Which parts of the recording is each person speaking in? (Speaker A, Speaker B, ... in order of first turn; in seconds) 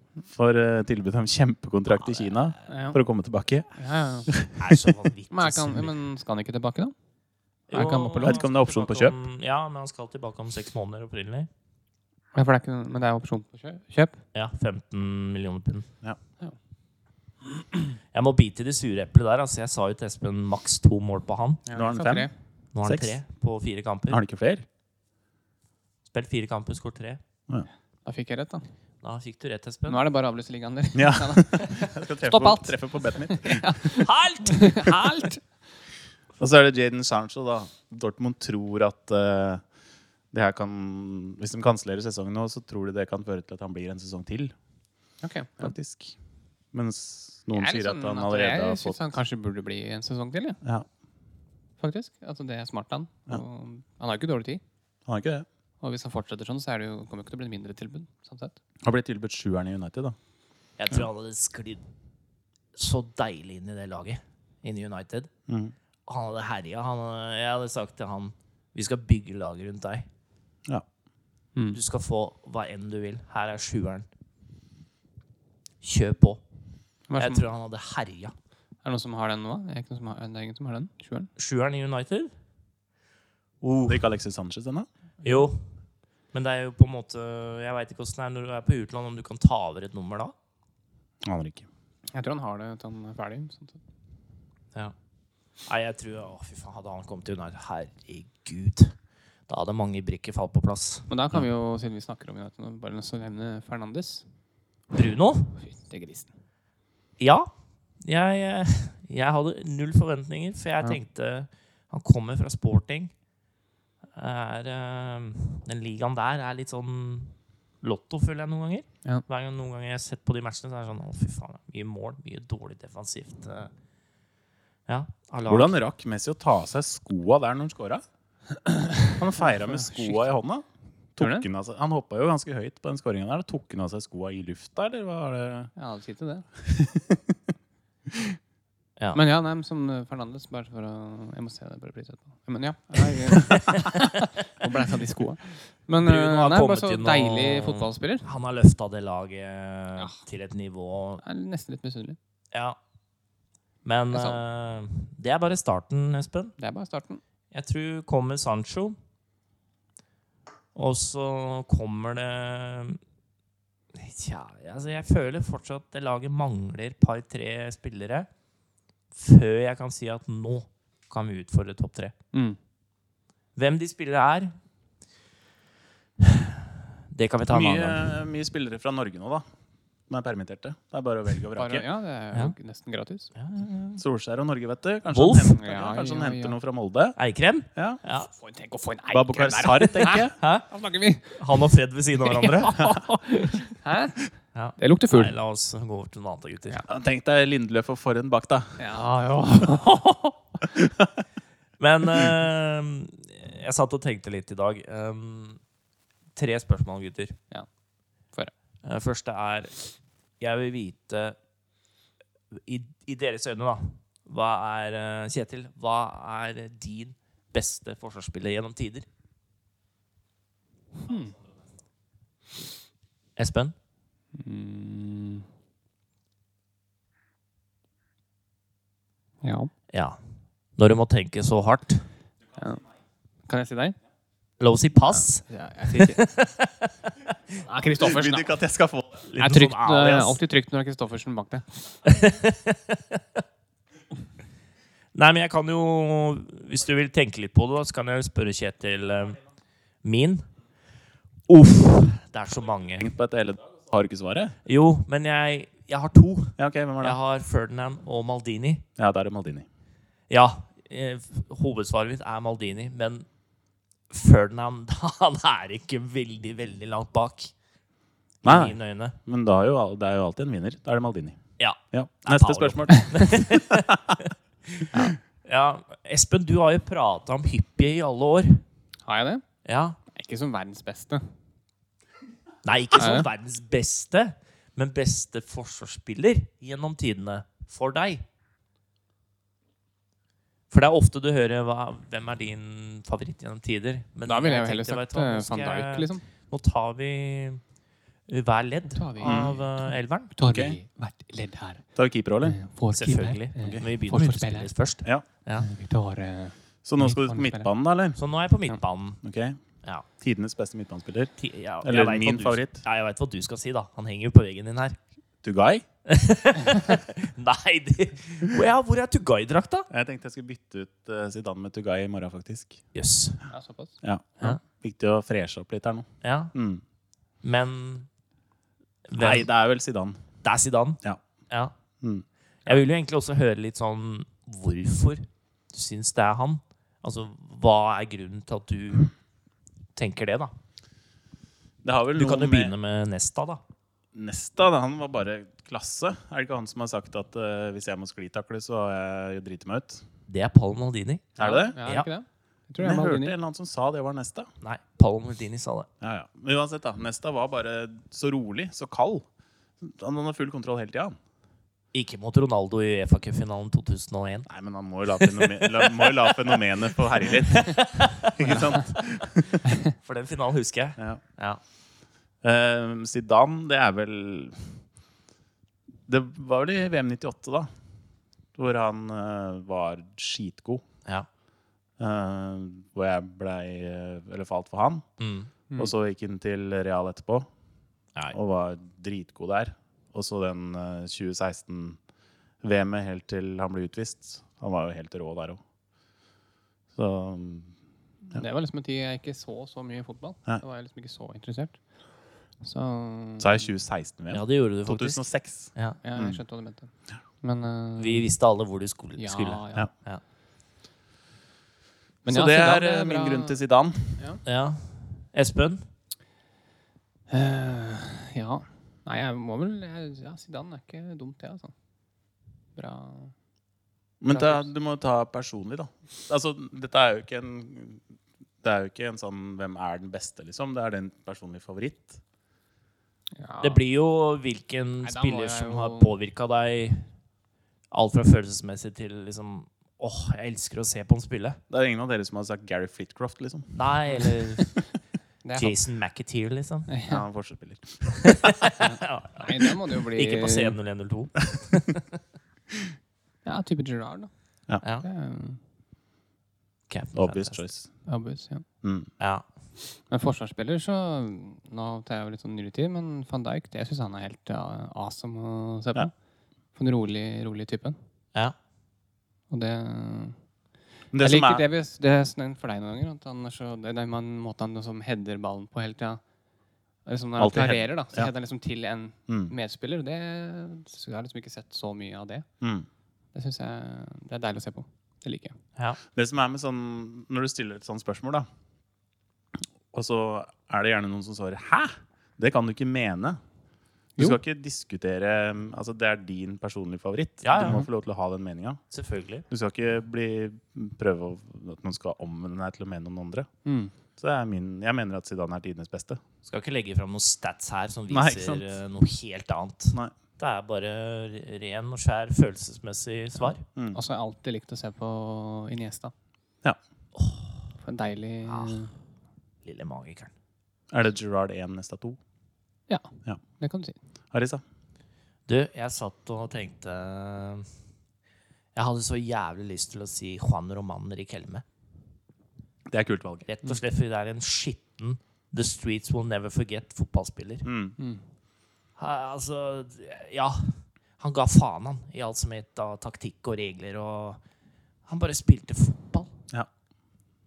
Speaker A: 0.3-3.7, 4.3-4.9, 8.2-9.2, 21.7-22.3, 22.8-23.2, 24.1-24.7, 30.9-33.7, 36.4-39.6, 40.3-44.5, 45.6-46.2, 46.7-49.2, 55.1-55.5, 58.8-60.2, 65.5-65.7, 83.9-84.9, 91.2-91.7, 125.5-128.0, 129.2-135.7, 136.6-137.4, 138.1-138.4, 177.5-179.5, 180.1-181.9, 184.0-187.2, 189.1-190.3, 196.9-198.8, 200.8-201.1, 238.0-239.3, 253.0-254.6, 256.6-257.2, 259.0-259.7, 268.4-271.4, 271.9-274.2, 299.2-299.6, 300.4-300.8, 302.0-302.6, 306.9-308.2, 309.2-309.6, 310.2-311.3, 311.8-312.8, 315.4-315.9, 319.9-322.8, 324.0-326.8, 329.2-330.2, 332.0-332.7, 341.8-342.7, 344.1-350.0, 351.4-351.8, 352.8-354.5, 356.0-359.3, 359.8-361.2, 364.5-369.6, 372.4-374.8, 376.1-377.7, 378.6-380.8, 382.0-385.1, 385.8-387.5, 388.3-392.0, 392.6-395.6, 396.9-397.7, 403.4-406.4, 412.3-414.2, 424.2-428.0, 428.6-432.2, 441.7-443.7, 447.1-448.6, 457.1-457.9, 458.8-459.1, 471.1-471.6, 477.4-478.3, 479.3-479.5, 482.6-482.9, 486.1-488.5, 489.9-493.4, 494.2-498.8, 499.5-503.5, 504.2-506.2, 508.1-508.7, 520.9-522.2, 524.3-524.6, 532.9-533.5, 537.6-538.0
Speaker B: 2.7-3.0, 3.8-4.3, 5.3-6.9, 7.7-8.4, 12.3-14.2, 21.7-22.3, 28.1-28.6, 29.9-35.4, 45.2-45.7, 47.5-50.6, 51.8-54.6, 55.8-58.6, 77.1-77.4, 78.8-81.3, 85.2-85.5, 92.1-93.8, 101.1-104.3, 105.6-106.3, 128.7-130.2, 131.2-131.4, 135.8-136.5, 139.1-148.3, 151.2-152.2, 154.1-154.4, 156.6-157.2, 172.3-172.6, 181.6-183.3, 185.6-186.6, 188.3-191.6, 192.2-194.2, 194.8-195.3, 198.8-200.4, 221.0-221.4, 224.3-225.5, 229.4-229.7, 232.6-232.8, 233.5-234.0, 235.2-236.2, 237.7-238.5, 239.4-241.9, 279.1-279.4, 280.1-281.3, 283.0-283.3, 294.3-296.2, 298.9-301.8, 302.4-304.7, 305.6-307.7, 323.5-324.6, 351.4-353.4, 398.3-401.8, 402.6-403.7, 406.0-406.9, 407.4-408.3, 409.2-409.9, 412.2-413.6, 417.3-421.7, 422.8-423.3, 424.3-424.7, 433.4-433.8, 435.0-436.1, 445.4-445.8, 446.9-447.2, 448.8-450.8, 453.4-454.3, 455.0-455.6, 458.1-458.6, 460.0-466.1, 466.8-468.0, 469.5-470.4, 471.2-476.2, 477.1-482.5, 483.3-485.6, 497.6-497.9, 503.6-503.9, 513.4-516.1, 517.8-518.9, 522.9-524.0, 538.0-538.2
Speaker C: 4.6-5.9, 7.7-11.5, 14.3-15.9, 18.1-21.6, 22.7-24.2, 26.1-27.2, 29.0-30.0, 34.0-35.2, 60.8-61.8, 62.8-65.3, 66.1-70.1, 71.7-74.1, 75.8-76.4, 77.2-78.3, 81.4-82.3, 83.6-84.0, 85.2-85.6, 86.3-90.3, 95.7-99.0, 99.5-101.1, 104.9-105.5, 107.2-113.1, 114.2-123.7, 124.9-125.8, 146.0-151.2, 152.5-152.8, 153.8-156.6, 157.5-159.0, 160.8-163.0, 163.9-168.3, 169.1-172.1, 173.6-174.6, 176.2-178.2, 183.4-184.0, 185.1-185.6, 187.2-188.3, 190.4-190.7, 191.4-192.9, 194.5-196.8, 201.8-205.6, 206.4-207.4, 208.8-209.8, 210.4-211.4, 212.5-219.1, 223.4-223.8, 229.9-230.2, 230.8-232.1, 234.6-237.1, 239.3-240.4, 242.1-243.4, 245.1-249.4, 250.0-250.5, 251.5-253.1, 254.7-258.9, 260.3-263.3, 264.1-267.5, 268.4-269.2, 271.6-274.9, 275.4-278.6, 279.6-280.0, 282.6-288.2, 290.7-297.6, 298.3-300.3, 302.9-305.7, 308.2-309.2, 311.4-315.0, 316.1-319.9, 322.9-323.4, 326.2-326.5, 327.4-328.1, 329.1-329.5, 330.4-331.7, 332.7-339.1, 340.0-340.5, 342.2-343.6, 350.3-352.1, 354.6-355.9, 361.9-364.5, 365.1-368.8, 369.9-371.6, 385.2-385.5, 404.3-405.2, 405.8-406.0, 408.0-410.2, 414.5-415.9, 433.6-437.1, 437.9-441.6, 443.7-444.8, 445.6-446.9, 448.2-452.1, 454.8-455.1, 456.9-457.6, 459.2-459.4, 497.4-497.9, 498.9-499.5, 506.5-513.6, 517.2-517.6, 518.5-518.8, 519.6-520.3, 525.5-527.7, 528.8-531.6, 533.5-537.7, 539.0-544.4, 545.1-546.3